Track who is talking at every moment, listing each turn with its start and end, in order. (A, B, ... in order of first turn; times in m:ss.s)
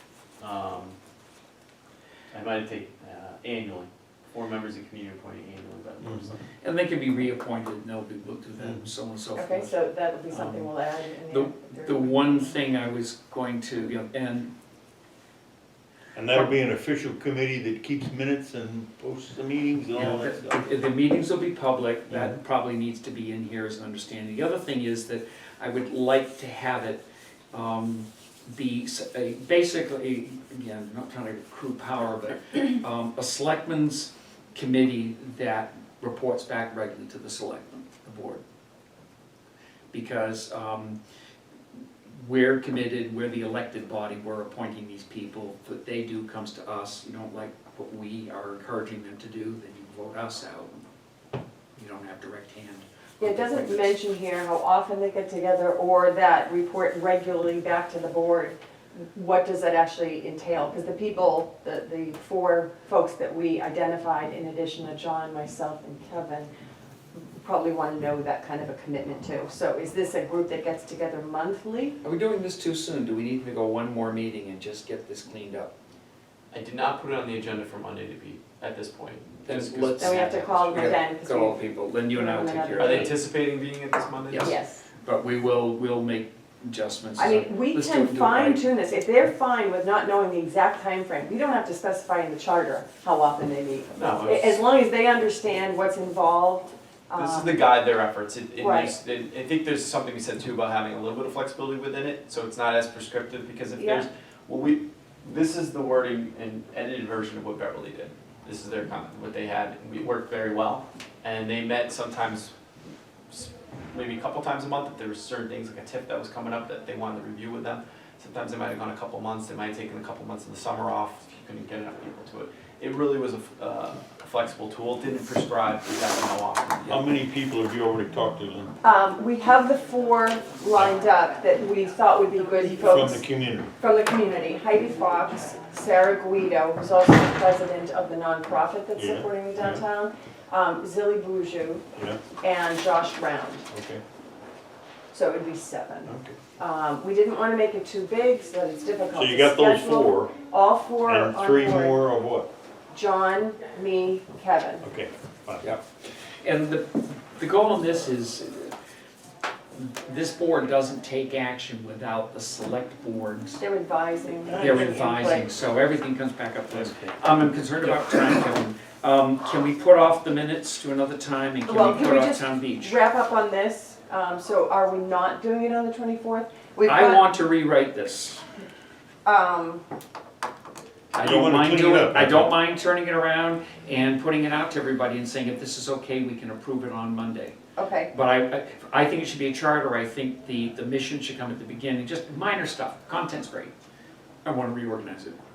0:00.4-0:01.0 A
0:02.3-0:06.4 A
0:06.6-0:09.8 B
0:09.4-0:12.6 C
0:10.3-0:10.7 B
0:11.3-0:14.5 B
0:16.2-0:20.6 D
0:20.0-0:38.4 B
0:22.1-0:22.4 D
0:39.9-0:41.0 B
0:42.2-0:50.8 B
0:51.8-0:54.0 B
0:53.2-1:06.5 C
1:07.1-1:12.0 C
1:12.0-1:15.7 B
1:16.5-1:20.9 A
1:19.5-1:23.2 B
1:20.0-1:23.2 C
1:22.8-1:24.6 A
1:24.3-1:28.6 B
1:24.4-1:24.8 C
1:27.2-1:37.6 C
1:33.9-1:34.7 A
1:37.2-1:52.5 A
1:38.6-1:38.9 C
1:43.8-1:44.1 C
1:53.3-2:07.1 A
2:06.9-2:08.7 D
2:08.8-2:13.2 C
2:10.7-2:11.0 D
2:12.8-2:13.7 D
2:13.8-2:21.8 C
2:19.0-2:19.9 D
2:22.0-2:22.2 D
2:22.4-2:23.7 C
2:23.7-2:24.0 D
2:25.1-2:32.0 C
2:26.1-2:26.4 D
2:29.1-2:30.4 D
2:31.0-2:32.5 D
2:32.9-2:34.9 C
2:34.8-2:35.7 D
2:36.4-2:38.7 B
2:39.8-2:43.6 B
2:43.6-2:45.5 C
2:44.5-2:45.0 D
2:44.6-2:53.0 B
2:46.7-2:47.0 D
2:51.7-2:57.2 C
2:56.8-2:58.4 B
2:59.2-2:59.8 C
3:01.1-3:07.6 B
3:01.2-3:02.5 D
3:07.8-3:08.1 C
3:08.1-3:13.7 B
3:14.4-3:15.4 B